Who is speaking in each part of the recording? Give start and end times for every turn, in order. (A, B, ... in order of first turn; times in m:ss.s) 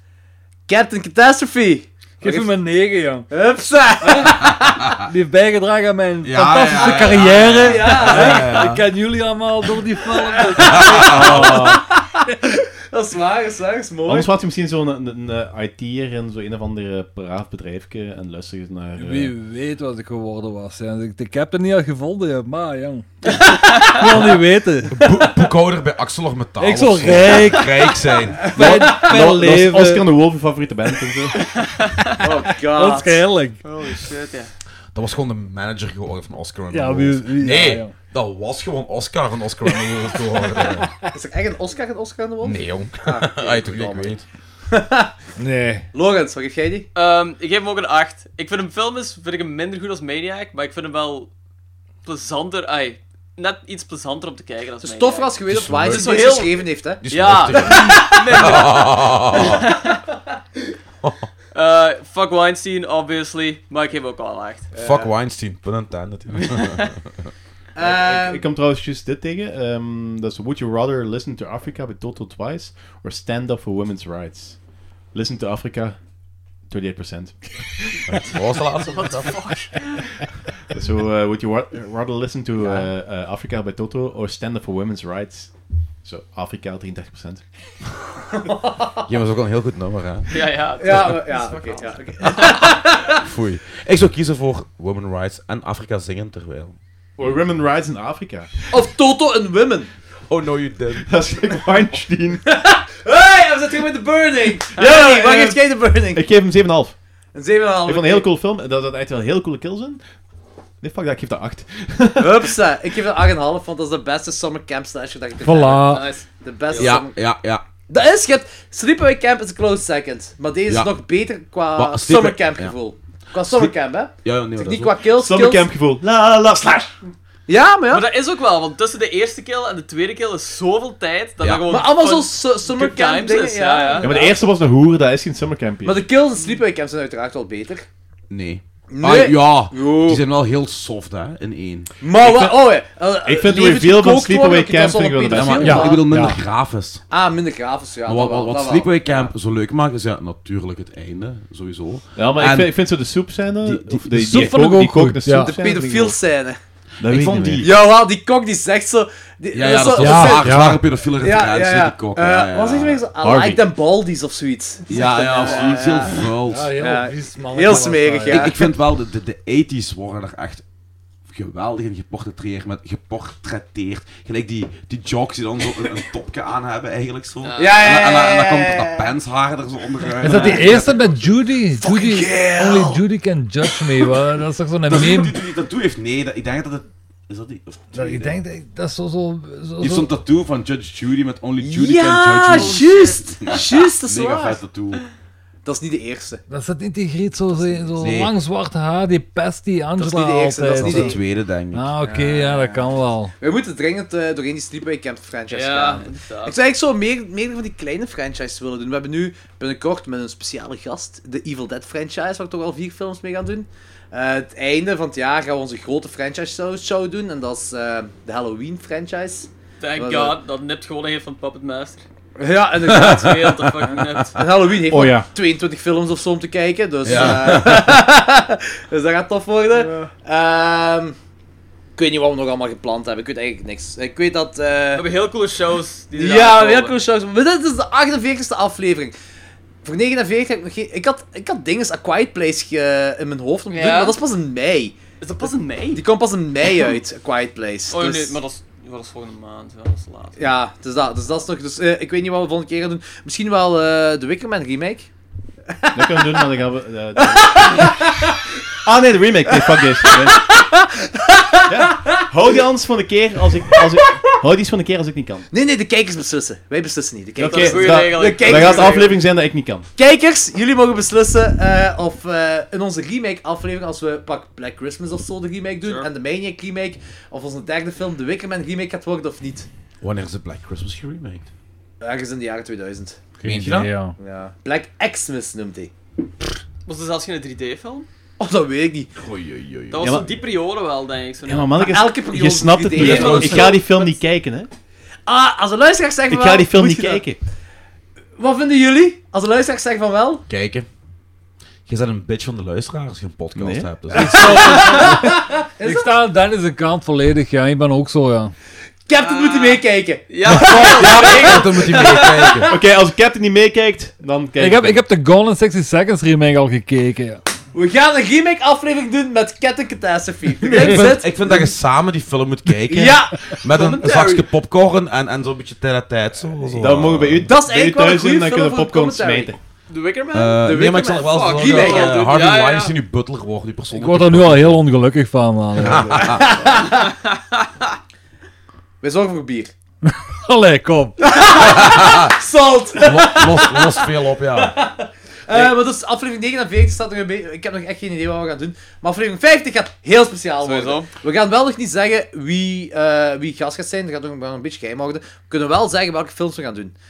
0:00.7-0:02.5 A
0:02.2-0:03.3 B
0:03.3-0:04.7 A
0:04.0-0:04.5 B
0:05.0-0:11.7 B
0:06.2-0:08.9 C
0:06.8-0:08.7 A
0:10.2-0:14.3 A
0:10.6-0:11.6 C
0:10.9-0:11.8 D
0:14.1-0:19.3 D
0:19.0-0:25.1 B
0:24.9-0:28.6 C
0:26.6-0:30.1 B
0:28.4-0:29.2 A
0:28.6-0:31.5 D
0:31.6-0:32.1 E
0:32.2-0:33.3 A
0:32.7-0:33.6 B
0:33.6-0:34.5 E
0:34.9-0:40.9 C
0:36.7-0:38.0 B
0:39.8-0:41.1 B
0:41.1-0:44.2 A
0:42.4-0:44.2 C
0:44.7-0:45.1 A
0:45.4-0:45.9 B
0:45.9-0:46.9 A
0:47.0-0:51.3 E
0:52.0-0:55.4 E
0:54.8-0:57.0 A
0:55.5-0:56.4 C
0:55.9-1:00.0 E
0:57.0-0:59.6 C
1:01.5-1:04.7 E
1:04.7-1:05.1 A
1:04.8-1:07.3 C
1:07.8-1:08.5 A
1:07.8-1:14.6 D
1:15.1-1:16.0 D
1:16.7-1:17.5 D
1:18.1-1:19.4 C
1:18.9-1:20.2 E
1:20.7-1:25.5 D
1:26.0-1:27.4 D
1:28.3-1:29.1 A
1:29.0-1:31.2 C
1:30.3-1:32.4 E
1:30.8-1:33.2 A
1:32.2-1:36.8 C
1:37.2-1:38.5 D
1:38.7-1:39.9 A
1:40.3-1:41.4 C
1:40.9-1:42.5 D
1:42.5-1:46.3 A
1:44.7-1:47.0 D
1:47.3-1:48.3 A
1:47.8-1:50.0 D
1:50.8-1:52.6 D
1:52.2-1:57.2 A
1:55.4-1:56.1 B
1:55.9-1:56.9 E
1:56.8-1:57.6 C
1:57.9-2:05.7 A
2:00.7-2:01.0 C
2:01.8-2:02.7 C
2:03.4-2:05.0 C
2:05.2-2:07.1 D
2:07.5-2:08.1 A
2:07.9-2:14.2 E
2:11.4-2:11.7 C
2:11.7-2:14.5 A
2:14.0-2:16.1 D
2:15.8-2:17.9 A
2:18.3-2:21.9 C
2:18.9-2:20.2 A
2:22.0-2:26.0 A
2:22.2-2:25.9 D
2:25.3-2:27.0 C
2:25.6-2:26.4 B
2:27.1-2:29.3 A
2:28.0-2:32.8 C
2:32.2-2:36.2 D
2:33.6-2:34.6 C
2:34.2-2:35.5 B
2:35.3-2:36.6 A
2:37.0-2:37.7 D
2:37.0-2:37.7 C
2:37.6-2:40.6 A
2:39.5-2:43.0 C
2:40.0-2:40.8 B
2:41.2-2:46.2 A
2:43.2-2:43.6 D
2:44.9-2:46.7 C
2:45.3-2:46.2 E
2:46.5-2:48.6 B
2:46.8-2:48.6 A
2:48.3-2:50.6 C
2:51.3-3:01.3 C
2:57.4-2:58.0 E
2:57.6-2:59.1 A
3:00.2-3:05.4 B
3:00.2-3:00.8 A
3:01.7-3:03.0 A
3:03.6-3:04.2 A
3:04.9-3:08.4 C
3:07.9-3:10.1 B
3:09.8-3:15.0 C
3:11.6-3:14.6 A
3:12.5-3:13.6 E
3:15.6-3:16.4 A
3:16.5-3:21.2 B
3:17.5-3:18.2 A
3:18.0-3:18.3 C
3:20.0-3:21.2 A
3:20.8-3:21.9 C
3:21.7-3:23.3 B
3:22.0-3:40.4 A
3:25.5-3:26.6 E
3:39.8-3:42.0 E
3:42.4-3:43.6 A
3:42.8-3:44.3 C
3:42.9-3:44.4 E
3:44.4-3:51.2 A
3:44.9-3:45.3 D
3:47.0-3:48.0 C
3:49.8-3:50.1 E
3:52.0-3:55.0 A
3:55.0-3:56.9 E
3:56.2-3:59.2 A
3:59.8-4:08.4 A
4:03.7-4:04.2 E
4:05.2-4:06.0 E
4:07.9-4:10.4 E
4:10.4-4:15.1 A
4:15.7-4:16.6 A
4:15.9-4:18.0 D
4:17.2-4:18.4 A
4:18.8-4:20.4 D
4:19.5-4:22.3 A
4:21.7-4:25.5 D
4:25.5-4:29.2 A
4:27.4-4:29.9 D
4:27.5-4:29.2 E
4:30.0-4:39.7 A
4:35.8-4:36.1 E
4:40.0-4:41.5 C
4:42.0-4:43.2 A
4:43.4-4:44.2 B
4:43.4-4:43.9 C
4:44.2-4:45.9 A
4:46.9-4:48.1 E
4:48.4-4:49.1 A
4:49.2-4:50.3 C
4:49.9-4:51.8 E
4:50.0-4:50.3 D
4:51.5-4:54.7 D
4:51.8-4:53.9 A
4:53.0-4:54.1 E
4:53.0-4:53.8 C
4:55.3-4:57.3 A
4:56.3-4:57.4 D
4:58.4-5:00.4 A
5:00.5-5:00.9 C
5:01.9-5:04.6 C
5:03.6-5:05.4 D
5:04.2-5:08.5 B
5:04.2-5:06.1 A
5:09.1-5:12.8 A
5:09.1-5:11.7 E
5:10.5-5:12.7 C
5:12.7-5:15.0 D
5:14.6-5:17.4 B
5:17.7-5:21.7 A
5:20.6-5:27.5 C
5:22.9-5:23.4 A
5:23.7-5:24.5 E
5:26.8-5:29.6 D
5:27.4-5:29.6 A
5:29.9-5:33.0 E
5:30.3-5:34.9 C
5:30.6-5:32.2 A
5:33.9-5:36.5 B
5:35.8-5:36.6 C
5:36.1-5:37.2 A
5:39.0-5:39.7 A
5:40.1-5:41.2 B
5:41.2-5:57.0 A
5:41.5-5:42.4 C
5:43.0-5:44.8 C
5:50.6-5:51.1 E